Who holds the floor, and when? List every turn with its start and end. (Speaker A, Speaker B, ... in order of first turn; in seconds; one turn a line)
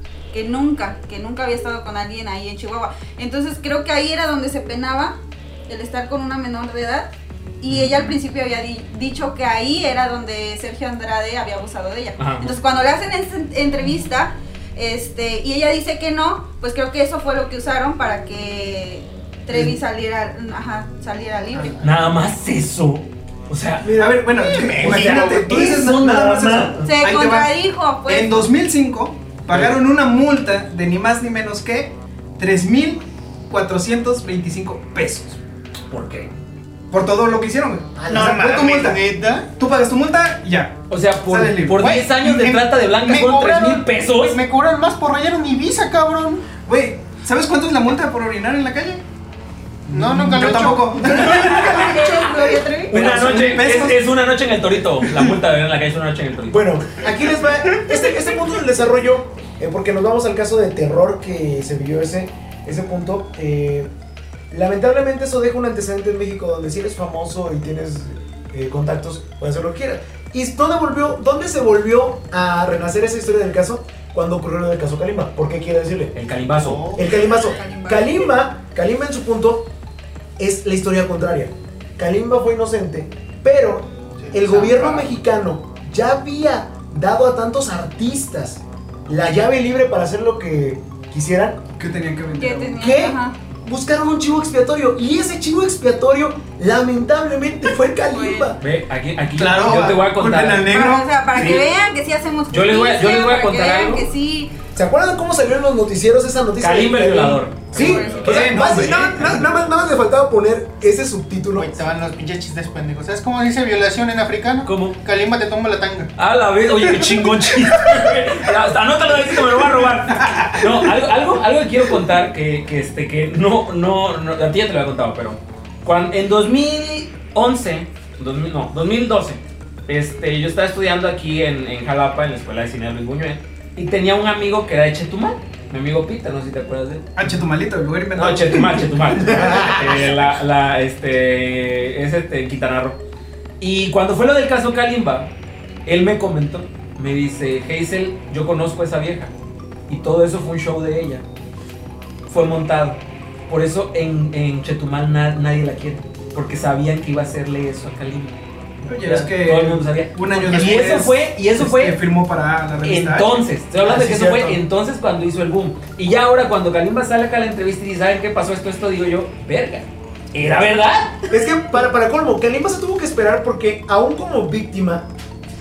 Speaker A: 0.3-5.2
Speaker A: 5.7-7.1
Speaker A: 7.6-21.9
Speaker B: 7.7-8.2
Speaker B: 12.2-12.6
Speaker B: 21.8-23.9
Speaker C: 23.8-27.0
Speaker D: 23.9-27.5
Speaker E: 24.3-25.7
Speaker B: 25.7-26.2
Speaker A: 26.8-28.4
Speaker D: 28.1-35.4
Speaker B: 29.5-29.8
Speaker B: 35.9-36.3
Speaker D: 36.9-39.0
Speaker C: 38.0-38.9
Speaker E: 38.1-39.5
Speaker D: 39.6-41.8
Speaker B: 40.9-44.4
Speaker E: 41.8-46.5
Speaker D: 46.6-49.0
Speaker E: 49.9-51.7
Speaker D: 49.9-52.2
Speaker B: 51.3-52.2
Speaker A: 51.4-53.1
Speaker B: 52.9-56.8
Speaker D: 52.9-54.0
Speaker C: 56.5-63.9
Speaker C: 64.5-76.1
Speaker B: 76.2-76.9
Speaker E: 76.6-77.5
Speaker C: 77.0-79.7
Speaker A: 77.0-78.3
Speaker C: 80.4-91.6
Speaker E: 84.2-85.1
Speaker D: 91.8-92.8
Speaker A: 92.4-93.4
Speaker C: 92.8-98.6
Speaker A: 98.1-98.6
Speaker B: 98.6-100.8
Speaker D: 99.4-101.6
Speaker A: 100.6-104.5
Speaker B: 101.3-101.8
Speaker B: 102.5-104.1
Speaker C: 104.7-111.7
Speaker B: 106.6-109.3
Speaker A: 107.8-108.6
Speaker D: 108.2-109.5
Speaker E: 111.6-116.1
Speaker B: 114.7-115.0
Speaker B: 116.2-137.3
Speaker D: 137.2-139.6
Speaker B: 138.2-143.0
Speaker C: 139.3-139.8
Speaker B: 143.6-145.3
Speaker B: 145.8-149.3
Speaker B: 149.9-151.2
Speaker B: 152.3-162.0
Speaker D: 158.9-163.4
Speaker E: 160.5-160.8
Speaker B: 162.8-171.3
Speaker C: 163.8-164.6
Speaker C: 171.3-175.1